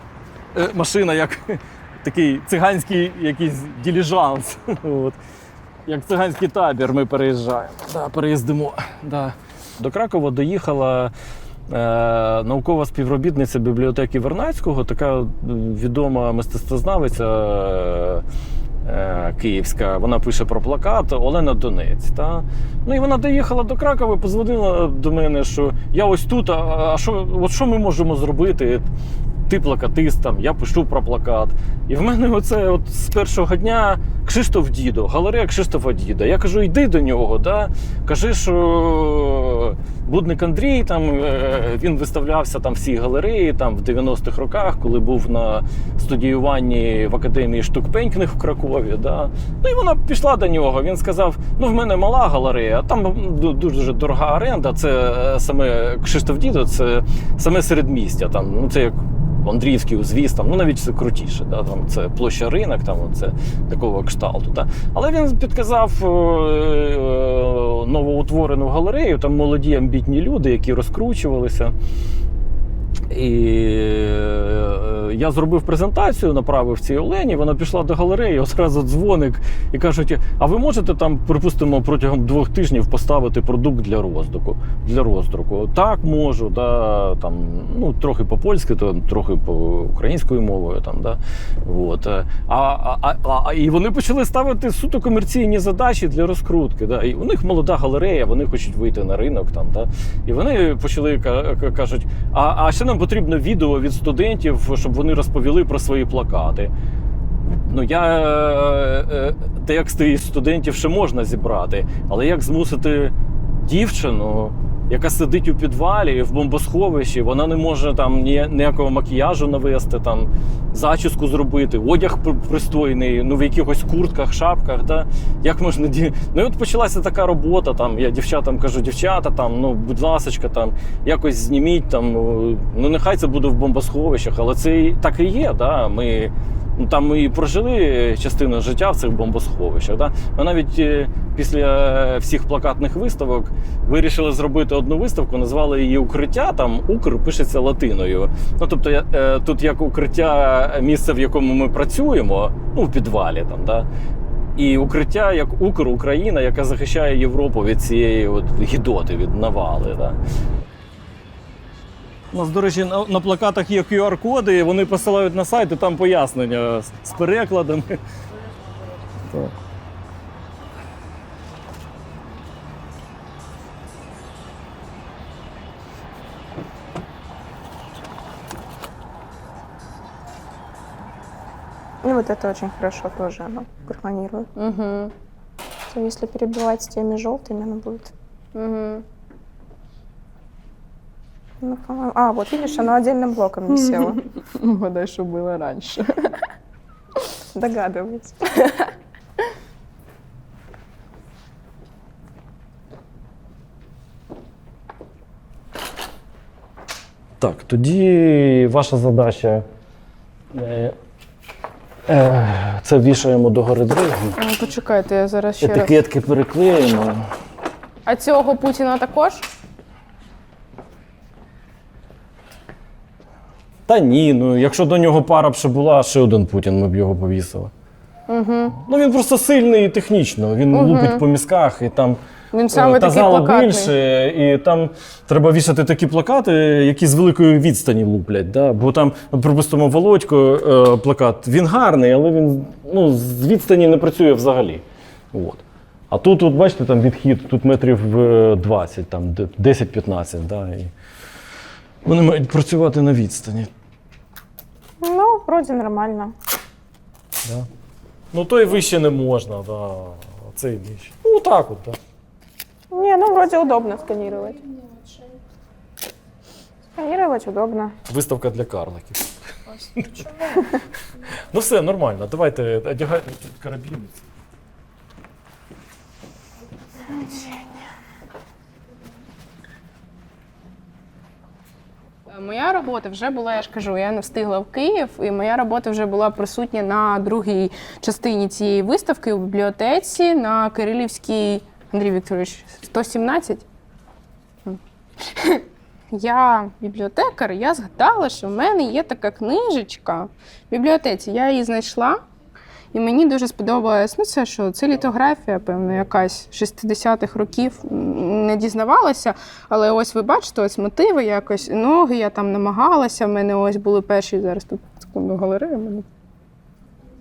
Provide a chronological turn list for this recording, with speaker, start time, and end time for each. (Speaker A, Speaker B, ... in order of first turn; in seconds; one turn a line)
Speaker A: 0.5-5.2
Speaker A: 5.8-11.1
Speaker A: 11.7-18.2
Speaker A: 18.8-28.9
Speaker A: 29.5-71.7
Speaker A: 73.1-106.7
Speaker A: 107.5-113.1
Speaker A: 113.6-153.9
Speaker A: 154.6-160.2
Speaker A: 162.3-168.0
Speaker B: 182.0-184.5
Speaker C: 184.6-185.1
Speaker B: 185.9-188.1
Speaker C: 188.5-189.0
Speaker B: 191.6-194.2
Speaker C: 193.7-196.3
Speaker B: 197.5-198.9
Speaker A: 207.4-209.6
Speaker A: 210.5-210.9
Speaker A: 212.1-214.3
Speaker C: 214.4-215.9
Speaker A: 215.6-217.2
Speaker C: 218.0-219.4
Speaker A: 223.9-227.7
Speaker C: 228.3-228.8
Speaker A: 228.8-232.2
Speaker C: 230.7-231.2
Speaker C: 232.5-233.9
Speaker A: 232.7-250.9
Speaker A: 252.0-253.7
Speaker B: 255.0-256.3
Speaker A: 258.3-262.0
Speaker B: 262.9-264.8
Speaker B: 266.9-267.9
Speaker A: 268.1-269.2
Speaker A: 270.0-270.6
Speaker A: 271.5-274.2
Speaker C: 282.3-293.6
Speaker C: 295.3-302.2
Speaker C: 302.9-316.1